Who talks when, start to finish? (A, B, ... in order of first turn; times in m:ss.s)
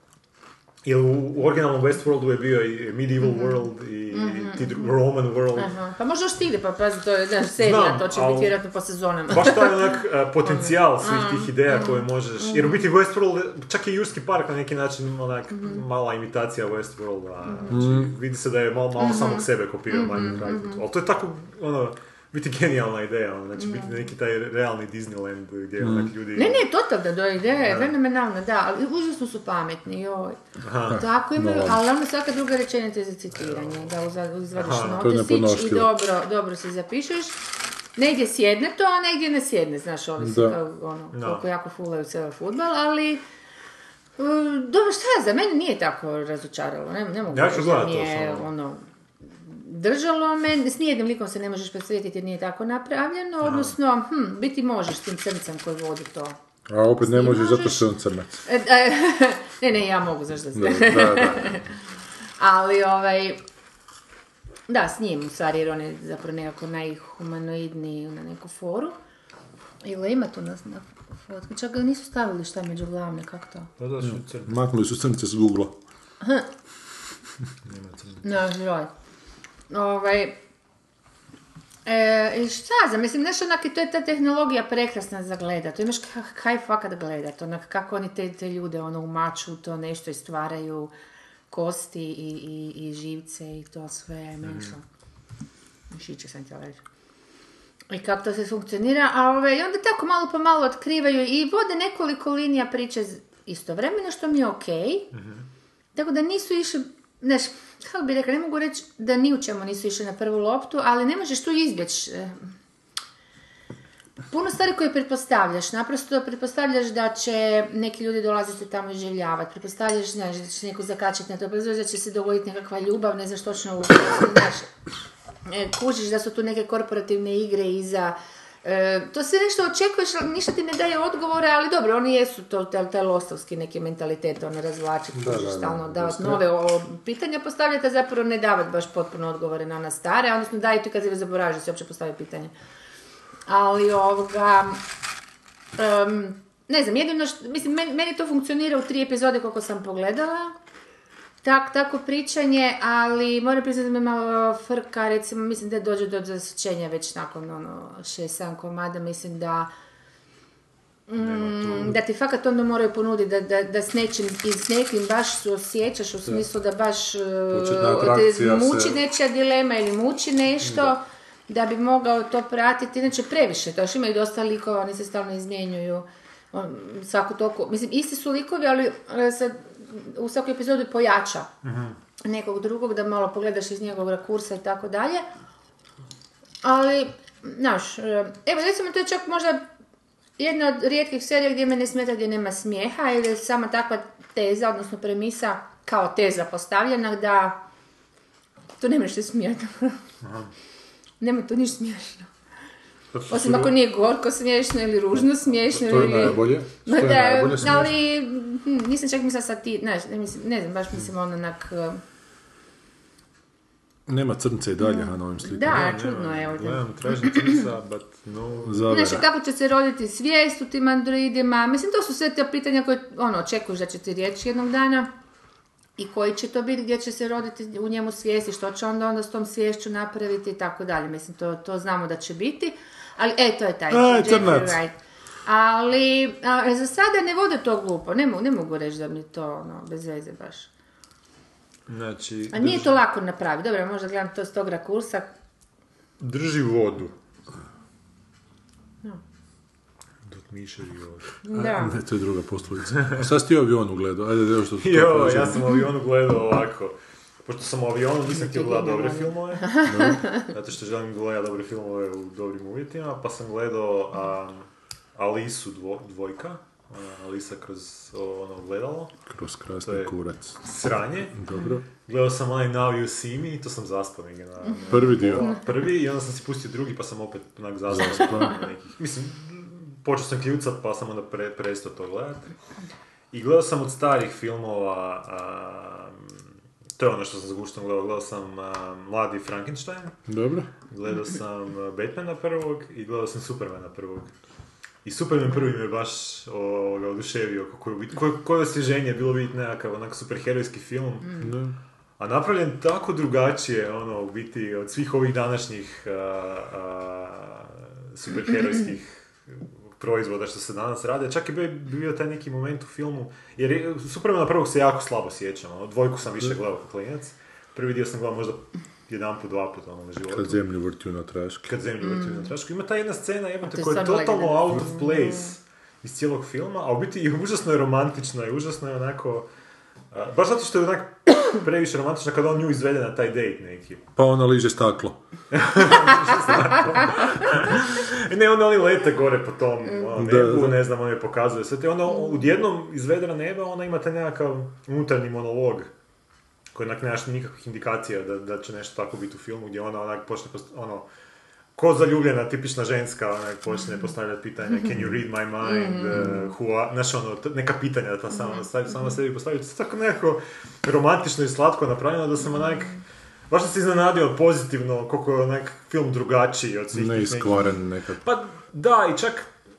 0:00.8-0:05.7 A
0:03.2-0:04.9 B
0:05.6-0:12.8 B
0:07.6-0:08.6 A
0:09.3-0:26.7 A
0:15.5-0:15.8 B
0:17.5-0:17.8 B
0:17.7-0:18.1 C
0:19.0-0:20.8 B
0:23.6-0:24.1 B
0:25.8-0:26.1 C
0:26.4-0:30.4 B
0:27.6-0:27.9 A
0:30.6-0:31.0 A
0:30.9-0:31.8 C
0:30.9-0:37.4 B
0:33.4-0:33.9 A
0:34.5-0:35.1 A
0:34.9-0:35.9 C
0:38.0-0:43.2 B
0:40.2-0:40.6 C
0:41.1-0:41.4 A
0:44.2-0:48.8 B
0:47.3-0:48.5 A
0:49.4-0:56.4 B
0:53.4-0:53.7 A
0:56.7-0:58.4 C
0:57.0-0:57.9 B
0:58.4-1:01.6 B
1:00.6-1:01.6 C
1:02.4-1:03.4 B
1:04.7-1:09.0 B
1:09.8-1:13.7 B
1:13.8-1:14.5 A
1:14.0-1:15.8 C
1:16.2-1:16.5 B
1:17.6-1:18.2 A
1:18.2-1:18.9 B
1:19.7-1:20.4 B
1:21.9-1:30.9 B
1:31.5-1:34.8 B
1:34.4-1:34.7 A
1:35.9-1:36.8 B
1:37.9-1:45.1 B
1:45.1-1:45.4 A
1:46.0-1:52.4 B
1:54.3-2:04.7 B
2:05.5-2:22.5 B
2:15.2-2:16.4 C
2:23.5-2:24.8 B
2:25.8-2:30.5 B
2:31.4-2:39.7 B
2:41.1-3:01.5 B
2:41.2-2:42.0 A
2:47.5-2:49.0 C
3:01.6-3:02.0 A
3:02.2-3:05.3 B
3:06.6-3:09.6 B
3:10.4-3:17.6 B
3:18.8-3:20.0 B
3:20.2-3:20.5 A
3:21.2-3:22.3 B
3:23.1-3:23.7 A
3:23.3-3:32.0 B
3:25.8-3:27.9 C
3:34.1-3:35.9 C
3:34.8-3:37.4 B
3:35.7-3:38.9 A
3:38.7-3:39.3 C
3:38.9-3:45.1 B
3:46.0-3:55.0 B
3:53.9-3:54.8 C
3:55.5-4:00.7 B
4:01.9-4:03.0 A
4:02.5-4:05.3 B
4:06.2-4:07.1 A
4:10.3-4:11.3 A
4:11.4-4:12.0 B
4:11.5-4:15.7 C
4:14.8-4:19.8 A
4:18.4-4:20.4 B
4:19.9-4:20.2 C
4:20.5-4:29.2 A
4:29.3-4:30.6 C
4:29.8-4:42.5 A
4:31.4-4:31.8 C
4:34.7-4:35.6 B
4:34.9-4:35.5 C
4:37.9-4:38.6 C
4:43.3-4:46.3 A
4:47.0-4:50.2 A
4:50.3-4:50.7 C
4:50.9-4:54.3 A
4:55.0-5:01.5 A
5:01.4-5:01.8 C
5:02.2-5:20.6 A
5:20.3-5:21.7 C
5:21.7-5:29.5 A
5:22.0-5:22.5 B
5:23.6-5:25.5 B
5:30.1-5:34.0 A
5:34.2-5:35.2 C
5:35.5-5:45.9 A
5:40.1-5:40.9 C
5:46.7-5:51.1 A
5:51.8-6:03.0 A
5:55.6-5:56.5 B
6:02.6-6:02.9 B
6:03.5-6:09.5 A
6:06.9-6:08.2 C